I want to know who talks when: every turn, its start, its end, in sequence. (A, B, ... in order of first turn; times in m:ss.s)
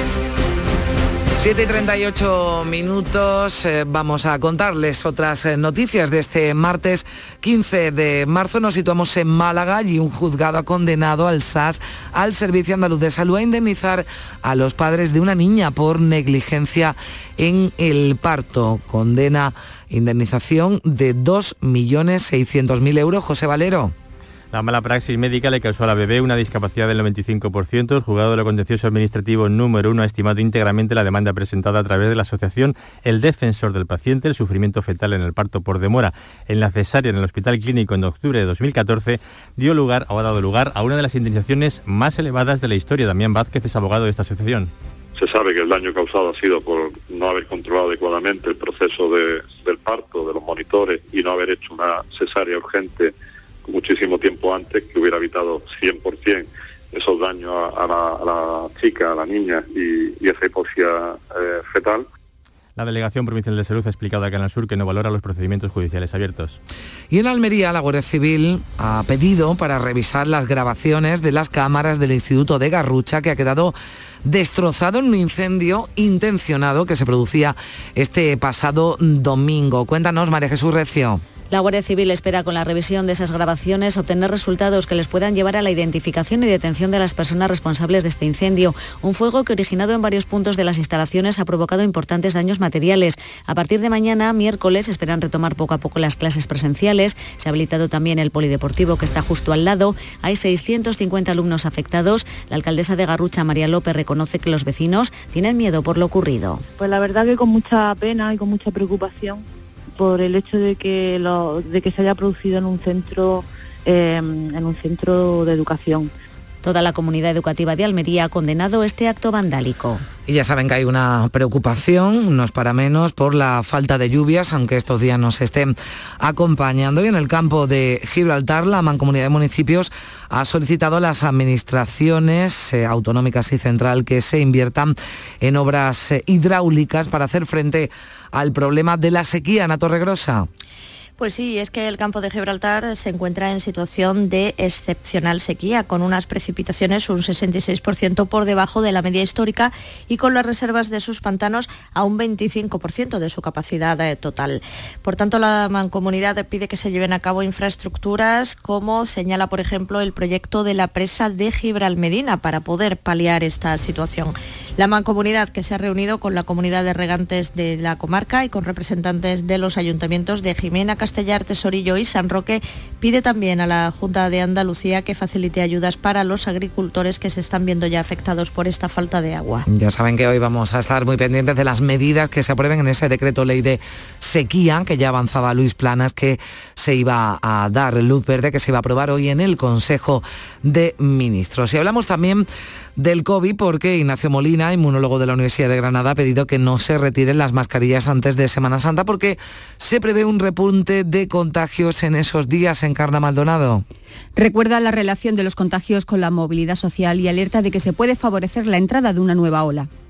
0:01.4-0:23.9 A
0:24.5-0:44.7 B
0:45.2-0:53.1 C
0:53.6-1:02.1 C
1:02.8-1:06.6 B
1:07.1-1:21.2 A
1:21.5-1:46.6 D
1:46.8-1:49.4 E
1:50.0-1:56.1 E
1:56.6-2:00.0 D
2:00.3-2:20.5 A
2:21.2-2:59.6 D
2:59.7-3:12.4 A
3:13.0-3:23.8 A
3:24.4-3:29.9 F